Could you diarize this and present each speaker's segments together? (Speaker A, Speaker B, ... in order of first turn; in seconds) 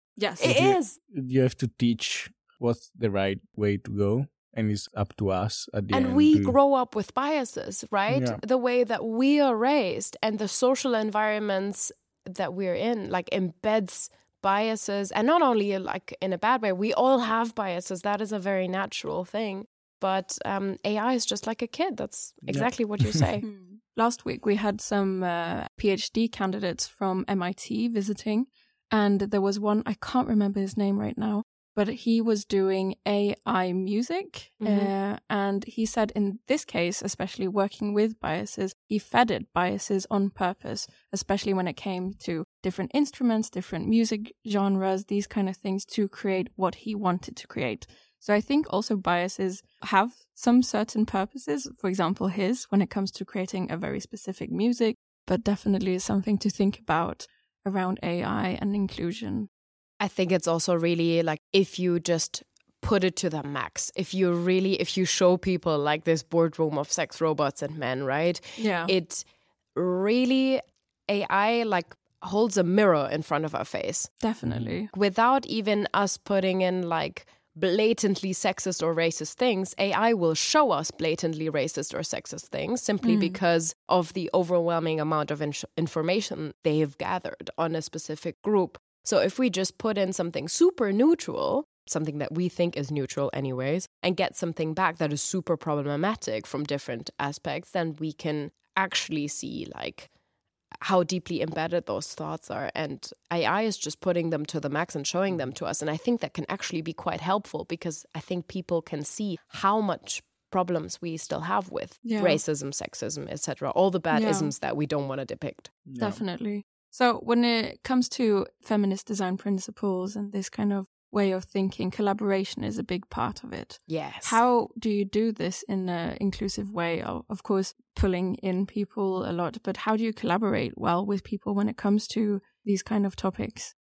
Speaker A: 0.2-0.5, 23.4-59.5, 68.6-68.9, 74.2-74.9, 83.0-83.4, 112.0-112.4, 114.1-114.5, 116.0-133.7
Speaker B: 0.4-1.0, 5.9-23.4, 34.6-34.9, 60.0-74.1, 74.9-100.1, 100.8-115.7, 123.9-124.4
Speaker C: 0.4-6.5, 8.1-8.4, 22.5-23.2, 74.4-74.7, 115.9-116.2